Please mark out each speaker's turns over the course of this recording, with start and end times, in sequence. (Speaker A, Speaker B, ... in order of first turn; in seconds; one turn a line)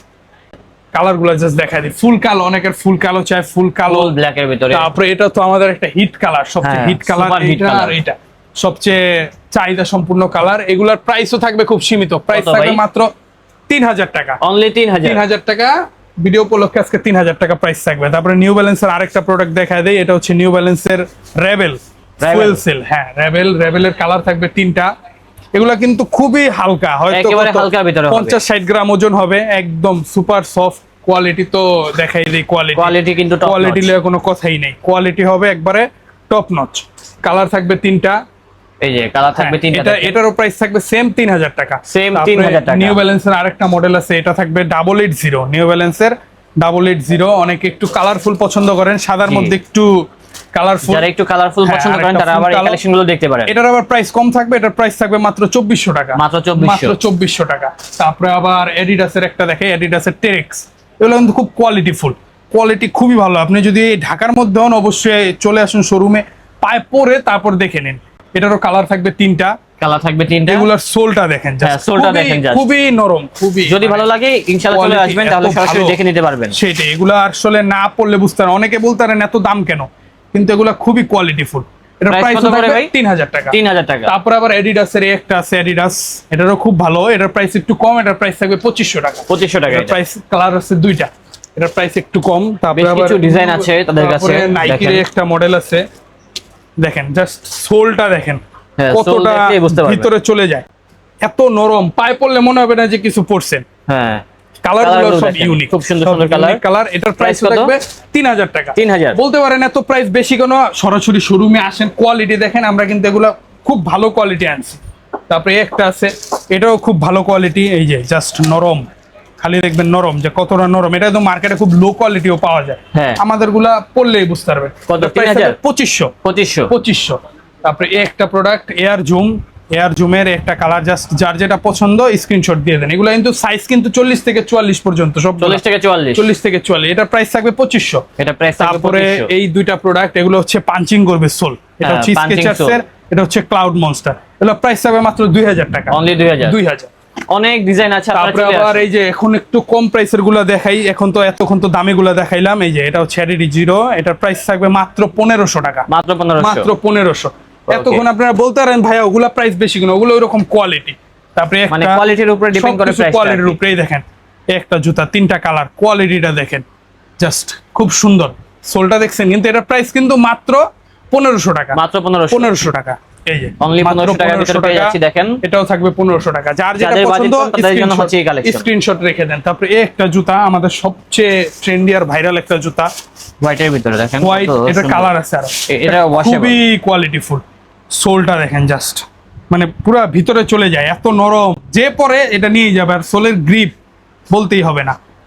Speaker A: 0.9-4.1
Speaker B: 3.9-4.9
Speaker A: 4.7-13.1
Speaker B: 6.6-8.0
Speaker B: 12.3-12.8
Speaker A: 13.7-14.4
Speaker B: 14.4-15.2
Speaker A: 15.0-24.9
Speaker B: 22.2-22.6
Speaker A: 25.5-38.2
Speaker B: 27.1-28.4
Speaker B: 32.7-33.9
Speaker B: 38.8-40.1
Speaker A: 39.4-51.1
Speaker B: 41.9-43.0
Speaker B: 49.3-49.5
Speaker B: 50.9-53.5
Speaker A: 51.6-52.8
Speaker A: 53.5-69.5
Speaker B: 56.1-57.0
Speaker B: 69.8-70.7
Speaker A: 70.5-74.0
Speaker B: 71.6-72.6
Speaker B: 73.7-76.6
Speaker A: 74.7-76.0
Speaker A: 76.5-95.8
Speaker B: 82.1-82.9
Speaker B: 83.5-84.1
Speaker B: 89.3-90.0
Speaker B: 92.7-95.0
Speaker A: 96.8-100.7
Speaker B: 98.8-100.1
Speaker A: 101.2-103.7
Speaker B: 103.9-104.2
Speaker A: 104.6-114.8
Speaker B: 104.8-106.6
Speaker B: 107.2-107.7
Speaker B: 108.8-109.2
Speaker A: 115.3-118.9
Speaker A: 119.4-126.1
Speaker B: 122.9-123.2
Speaker B: 124.9-125.6
Speaker B: 126.2-126.7
Speaker A: 126.7-135.6
Speaker B: 135.4-136.2
Speaker A: 136.1-138.1
Speaker B: 138.2-139.3
Speaker A: 138.6-146.9
Speaker B: 141.8-142.8
Speaker B: 145.9-146.6
Speaker B: 147.3-148.9
Speaker A: 148.1-155.9
Speaker B: 155.9-156.7
Speaker A: 156.4-166.6
Speaker B: 157.7-158.0
Speaker B: 161.7-163.6
Speaker A: 167.2-182.9
Speaker B: 171.7-172.6
Speaker B: 173.6-175.4
Speaker B: 176.8-178.7
Speaker B: 183.4-185.1
Speaker A: 184.2-193.7
Speaker B: 185.7-186.6
Speaker A: 194.3-195.0